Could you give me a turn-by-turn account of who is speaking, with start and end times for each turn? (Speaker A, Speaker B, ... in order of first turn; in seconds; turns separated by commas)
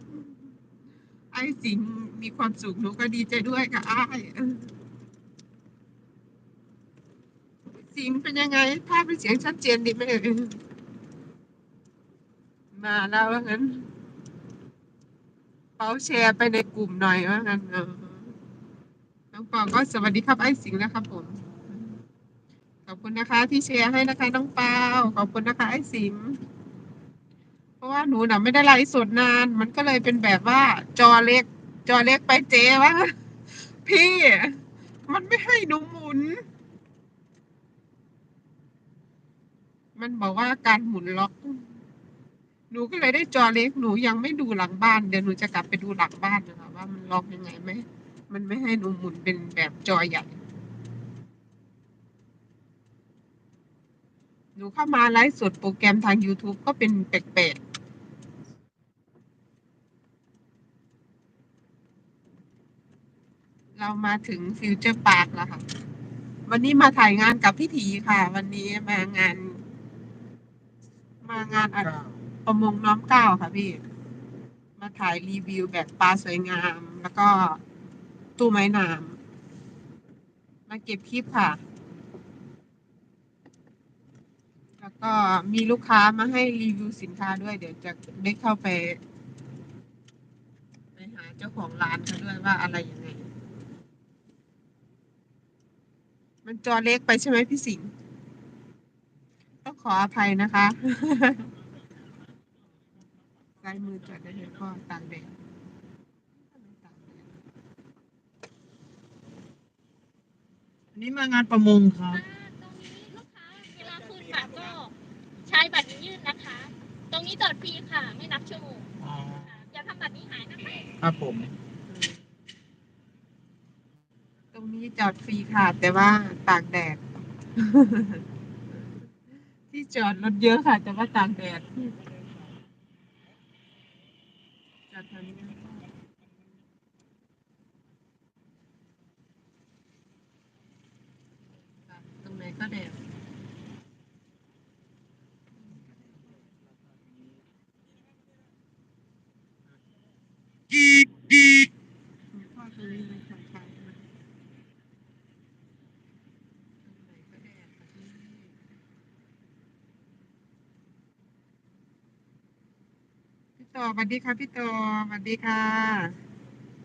Speaker A: 1.3-4.7, Speaker A: 7.8-10.6, Speaker A: 12.7-13.9, Speaker A: 15.8-18.4, Speaker A: 19.3-21.9, Speaker A: 22.9-26.4, Speaker A: 27.8-36.4, Speaker A: 40.0-41.8, Speaker A: 42.7-50.4, Speaker A: 54.5-57.6, Speaker A: 63.8-65.6, Speaker A: 66.5-69.6, Speaker A: 71.2-71.9, Speaker B: 71.3-72.2, Speaker A: 72.4-73.8, Speaker A: 74.8-77.6, Speaker A: 78.4-79.2, Speaker A: 80.7-81.6, Speaker A: 84.8-89.0, Speaker A: 91.0-93.3, Speaker A: 96.4-97.9, Speaker A: 99.6-101.5, Speaker A: 103.6-105.4, Speaker A: 106.3-107.4, Speaker B: 110.9-112.2, Speaker C: 112.1-118.9, Speaker B: 119.0-119.6, Speaker C: 119.5-120.9, Speaker B: 121.0-121.5, Speaker A: 121.9-122.2, Speaker A: 124.5-127.0, Speaker A: 127.5-128.2, Speaker A: 129.7-132.0, Speaker A: 134.9-135.8, Speaker A: 141.7-143.0, Speaker B: 145.7-147.4, Speaker A: 152.3-154.0, Speaker A: 156.8-158.6, Speaker A: 163.6-166.2